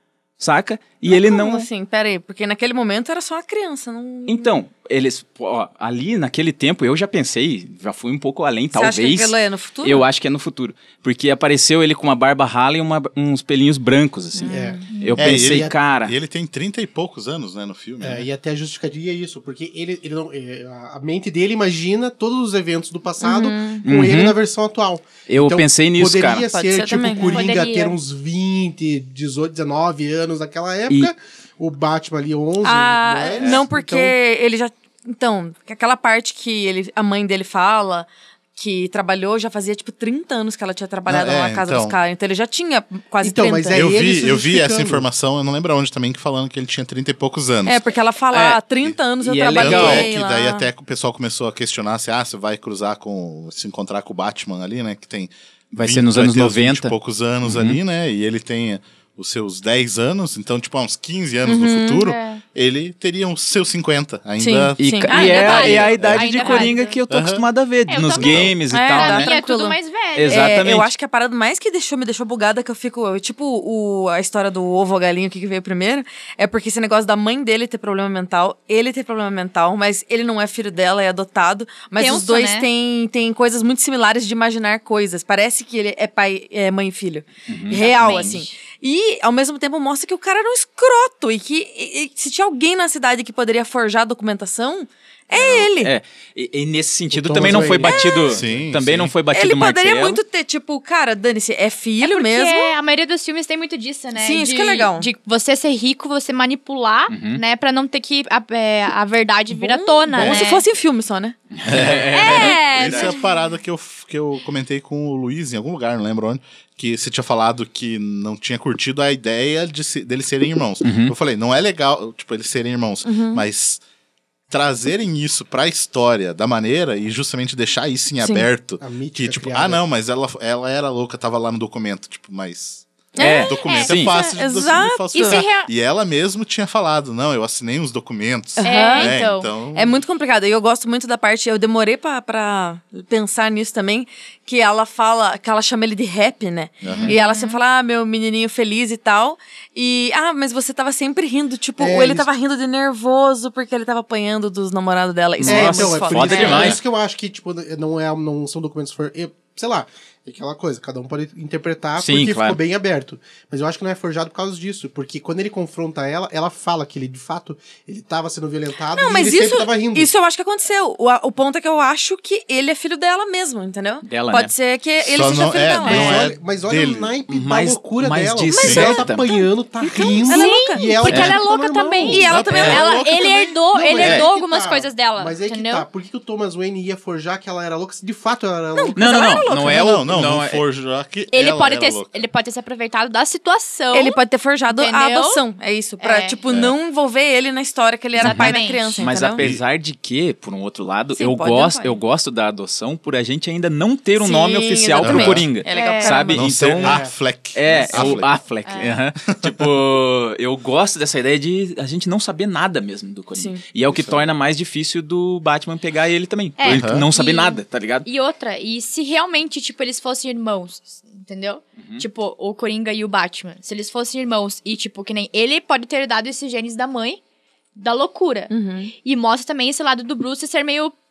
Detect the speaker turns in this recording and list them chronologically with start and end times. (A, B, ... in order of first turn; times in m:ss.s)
0:00.4-0:01.7 A
0:01.0-0:04.6 B
0:04.3-0:16.1 A
0:08.7-0:10.0 B
0:14.4-0:14.8 B
0:14.4-0:15.7 C
0:14.9-0:15.2 D
0:15.2-0:18.3 E
0:18.0-0:34.1 C
0:23.2-0:23.8 B
0:23.8-0:24.4 A
0:25.3-0:26.4 A
0:26.5-0:27.5 B
0:27.3-0:28.0 D
0:32.6-0:43.9 B
0:41.1-0:42.0 E
0:43.2-0:45.0 C
0:43.7-0:47.9 E
0:47.6-0:50.7 B
0:48.3-0:48.6 A
0:49.2-0:50.1 A
0:49.5-1:06.3 E
0:55.7-0:57.8 A
1:01.4-1:02.1 B
1:02.0-1:02.4 D
1:04.4-1:05.7 B
1:04.8-1:09.3 A
1:05.1-1:07.0 D
1:07.1-1:07.4 E
1:07.9-1:10.5 D
1:08.1-1:08.5 E
1:08.7-1:35.9 B
1:10.1-1:10.9 A
1:22.0-1:22.7 D
1:27.5-1:28.3 A
1:27.7-1:28.6 D
1:35.3-1:40.2 A
1:37.1-1:38.0 C
1:37.3-1:39.1 E
1:37.8-1:38.3 B
1:39.3-1:42.7 B
1:42.0-1:50.6 D
1:44.1-1:45.1 B
1:47.1-1:47.4 A
1:49.5-1:51.4 B
1:50.1-1:50.4 E
1:51.6-1:53.1 A
1:51.6-2:03.8 E
1:52.1-1:53.2 D
2:00.8-2:01.1 A
2:03.0-2:03.4 B
2:04.5-2:20.0 E
2:08.2-2:08.5 B
2:08.8-2:09.8 C
2:13.1-2:15.4 B
2:13.2-2:14.1 A
2:15.1-2:15.7 D
2:18.6-2:19.2 B
2:18.6-2:19.5 D
2:19.7-2:36.8 B
2:26.8-2:27.1 E
2:26.9-2:27.6 D
2:31.8-2:32.3 C
2:35.4-2:36.8 A
2:35.4-2:50.1 C
2:36.4-2:36.8 E
2:42.0-2:42.6 A
2:48.9-2:56.2 B
2:54.0-2:54.5 A
2:55.0-2:57.1 E
2:55.8-3:02.3 C
2:57.3-2:59.2 A
2:58.5-3:00.9 B
2:58.6-2:59.0 E
3:00.0-3:05.9 D
3:01.1-3:01.4 A
3:02.0-3:02.9 B
3:02.2-3:03.5 E
3:03.0-3:09.0 C
3:04.0-3:04.3 A
3:08.7-3:09.8 B
3:09.0-3:10.6 A
3:09.4-3:12.2 E
3:11.3-3:14.2 D
3:13.9-3:19.4 B
3:14.7-3:15.4 D
3:16.0-3:16.4 D
3:16.5-3:16.7 E
3:18.2-3:19.0 D
3:18.2-3:38.1 A
3:21.2-3:22.0 B
3:24.2-3:26.4 B
3:25.0-3:25.4 E
3:25.6-3:26.2 D
3:26.3-3:28.3 E
3:26.8-3:27.1 C
3:28.6-3:29.0 D
3:33.3-3:33.6 B
3:33.9-3:34.3 E
3:36.6-3:47.2 D
3:36.6-3:37.0 E
3:47.7-3:51.0 D
3:48.5-3:48.9 B